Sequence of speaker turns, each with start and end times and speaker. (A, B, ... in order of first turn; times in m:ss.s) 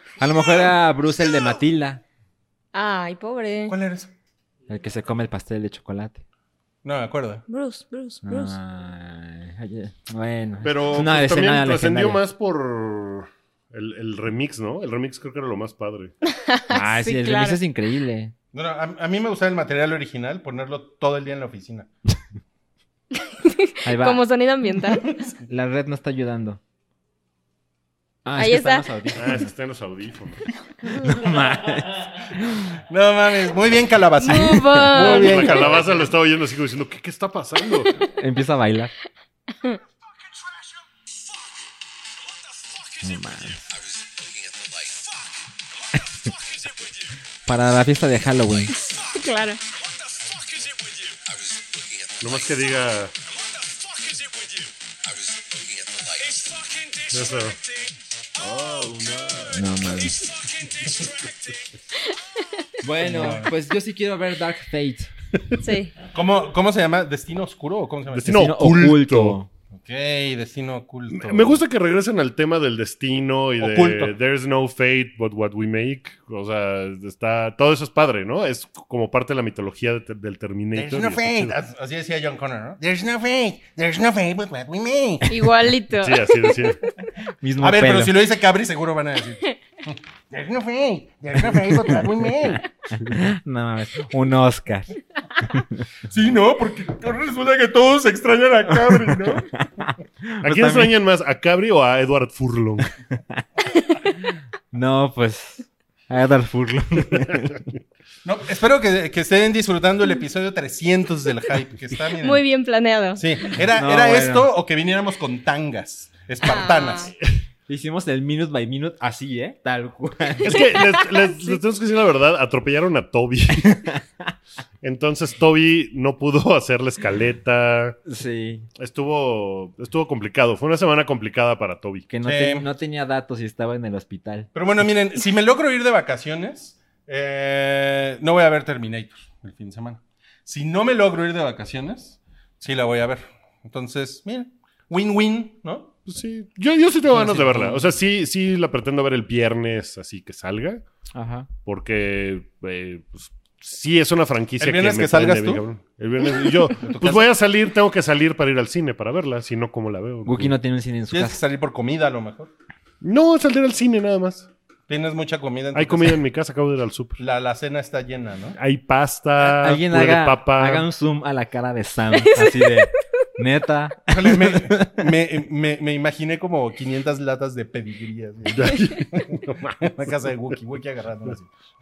0:00.2-0:02.0 A
0:02.7-0:03.8 B
0:03.7-0:04.1 C
0:04.7-0:06.2 A
0:06.8-0:07.4 C
0:07.5-0:08.6 B
0:08.2-0:12.2 A
0:10.6-0:16.1 D
0:16.3-0:17.6 B
0:16.7-0:18.3 A
0:18.5-0:21.9 C
0:23.4-0:25.2 B
0:23.8-0:24.2 A
0:25.1-0:25.4 C
0:25.5-0:26.6 A
0:28.2-0:29.5 A
0:28.4-0:28.8 B
0:29.2-0:30.5 D
0:31.0-0:32.7 A
0:32.9-0:35.8 C
0:34.2-0:35.8 B
0:34.9-0:37.9 D
0:38.1-0:38.9 A
0:40.0-0:41.4 E
0:42.2-0:47.2 E
0:43.0-0:43.6 A
0:47.5-0:48.8 A
0:48.7-1:01.7 E
0:49.2-0:49.6 B
0:52.2-0:53.1 D
0:57.1-0:57.6 D
0:58.7-0:59.3 D
0:59.5-1:00.2 A
1:02.8-1:05.1 A
1:03.0-1:03.5 C
1:05.6-1:05.9 B
1:06.1-1:08.4 C
1:08.1-1:09.4 D
1:08.2-1:09.5 A
1:09.7-1:11.6 C
1:11.1-1:21.5 D
1:13.6-1:14.2 C
1:20.8-1:22.8 C
1:21.2-1:21.4 F
1:22.8-1:25.3 F
1:25.3-1:26.8 B
1:26.0-1:26.8 D
1:27.4-1:28.2 A
1:27.6-1:30.0 C
1:30.3-1:32.6 F
1:33.0-1:35.8 A
1:36.1-1:39.5 C
1:38.9-1:40.9 A
1:40.4-1:42.9 D
1:44.7-1:47.6 A
1:47.2-1:47.6 D
1:48.2-1:52.4 C
1:52.2-1:53.3 B
1:53.2-1:57.1 C
1:53.7-1:54.5 A
1:56.4-1:57.1 B
1:57.7-2:00.6 A
2:00.4-2:03.8 D
2:00.6-2:01.6 B
2:03.7-2:04.0 A
2:04.8-2:08.0 D
2:08.1-2:08.7 A
2:08.8-2:12.1 D
2:12.1-2:14.5 A
2:12.2-2:12.7 C
2:14.5-2:26.0 C
2:26.1-2:30.8 D
2:27.1-2:27.8 C
2:31.2-2:31.5 A
2:31.6-2:40.5 D
2:34.6-2:35.6 C
2:36.8-2:37.2 C
2:40.2-2:41.4 A
2:41.1-2:42.5 C
2:43.0-2:44.5 D
2:44.9-2:46.2 C
2:45.7-2:47.2 D
2:47.2-2:48.6 C
2:48.6-2:50.9 D
2:49.4-2:55.0 A
2:54.1-3:01.5 C
2:58.5-3:00.0 D